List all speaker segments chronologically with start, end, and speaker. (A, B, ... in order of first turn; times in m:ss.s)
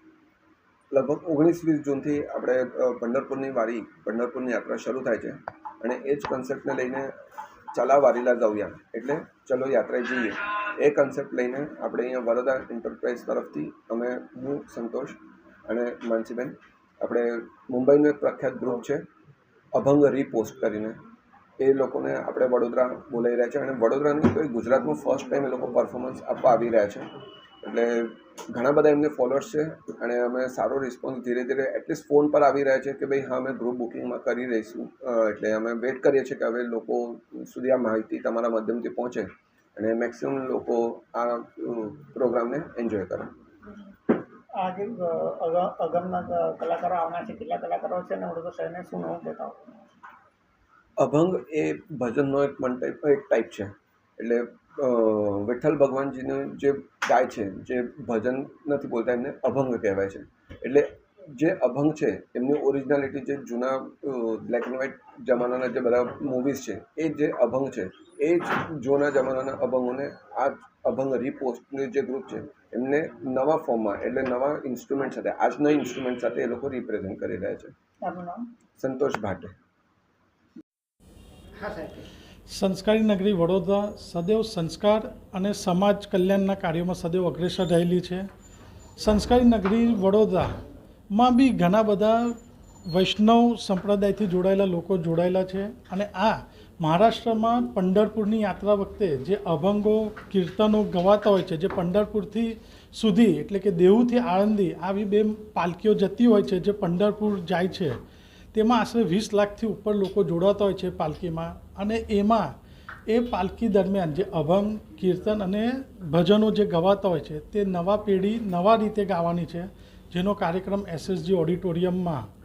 0:00.9-0:07.1 A
0:07.7-0:19.0 A
0:19.7-0:21.0 A
0:21.6-0:27.1 A
0:27.6-0:43.3 A
0:44.6-0:49.6 B
0:51.0-1:17.7 A
1:18.0-1:18.5 B
1:18.8-1:19.5 A
1:22.5-1:28.2 C
1:29.0-1:30.5 C
1:31.1-1:32.4 C
1:32.9-1:48.0 C
1:48.5-1:52.5 C
1:53.1-2:02.2 C